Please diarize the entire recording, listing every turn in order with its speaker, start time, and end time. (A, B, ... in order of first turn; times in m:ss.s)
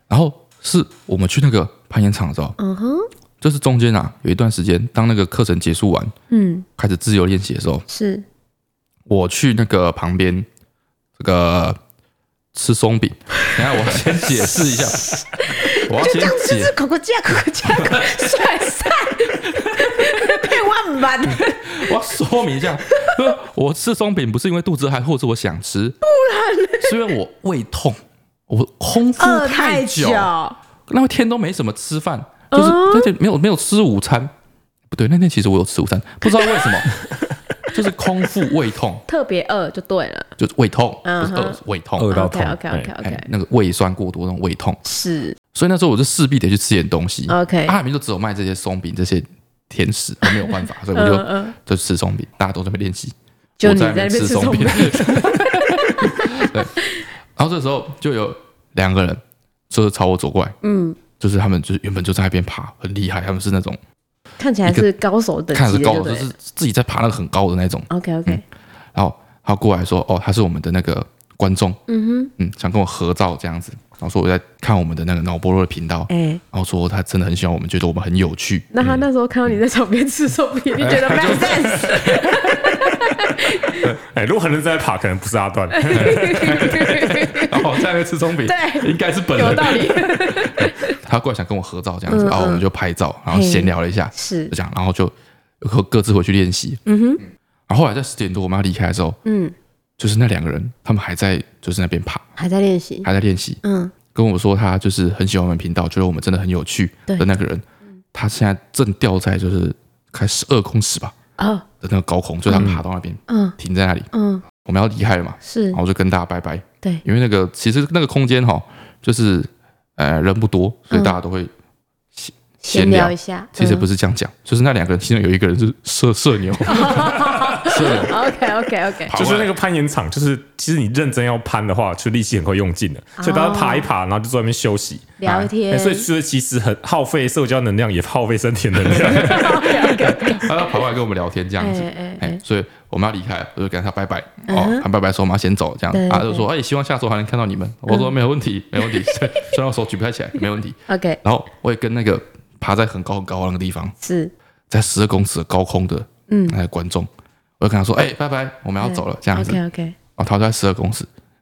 0:00.1-0:02.6 A
0:02.6-0:03.1 B
0:03.4-0:06.1 A
0:06.3-0:06.7 B
0:06.8-0:07.8 A
0:07.9-0:08.2 B
0:09.1-0:10.5 A
0:11.2-0:11.8 A
0:12.5-0:15.1 A
0:14.5-0:21.9 B
0:15.8-0:16.7 A
0:17.6-0:18.5 A
0:19.4-0:20.5 A
0:21.3-0:26.0 A
0:22.8-0:23.3 B
0:26.0-0:27.0 B
0:26.8-0:30.3 A
0:29.2-0:30.6 B
0:30.9-0:34.3 A
0:32.5-0:33.1 B
0:34.9-0:36.9 A
0:36.4-0:36.7 B
0:37.7-0:39.0 A
0:39.1-0:40.3 B
0:40.4-0:42.2 A
0:41.0-0:43.3 B
0:42.0-0:42.9 C
0:43.0-0:44.8 A
0:44.8-0:45.4 B
0:45.5-0:56.7 A
0:47.3-0:47.8 B
0:50.2-0:51.6 B
0:53.6-0:57.0 B
0:57.4-1:00.6 A
1:00.6-1:01.0 B
1:01.2-1:03.8 A
1:04.4-1:06.3 B
1:05.5-1:08.4 A
1:07.9-1:08.4 B
1:09.0-1:11.8 A
1:11.9-1:12.3 B
1:12.4-1:18.7 A
1:16.1-1:16.4 B
1:18.7-1:23.9 B
1:20.8-1:23.2 A
1:24.1-1:26.7 C
1:25.7-1:27.8 B
1:26.0-1:36.8 A
1:28.4-1:31.0 B
1:32.1-1:32.6 B
1:33.3-1:34.5 B
1:36.9-1:37.2 B
1:37.7-1:39.2 A
1:39.2-1:39.5 B
1:40.0-1:42.3 A
1:42.4-1:43.1 B
1:43.0-1:43.6 A
1:43.6-1:43.9 B
1:44.1-1:51.1 A
1:51.4-1:51.6 B
1:51.8-2:01.5 A
1:53.3-1:53.6 B
1:54.1-1:54.4 B
1:55.4-1:55.8 B
2:00.9-2:01.2 B
2:02.2-2:08.2 A
2:02.6-2:03.8 B
2:06.7-2:09.1 B
2:09.1-2:09.5 A
2:09.1-2:19.6 C
2:13.2-2:13.9 B
2:15.2-2:16.1 B
2:15.2-2:15.5 A
2:18.9-2:33.9 A
2:19.1-2:20.5 B
2:21.6-2:22.4 B
2:24.5-2:24.8 B
2:25.9-2:26.5 B
2:27.9-2:28.1 B
2:30.9-2:31.2 B
2:34.0-2:34.3 B
2:34.7-2:37.1 A
2:36.3-2:36.6 B
2:37.6-2:39.6 A
2:38.8-2:40.0 B
2:40.2-2:41.1 A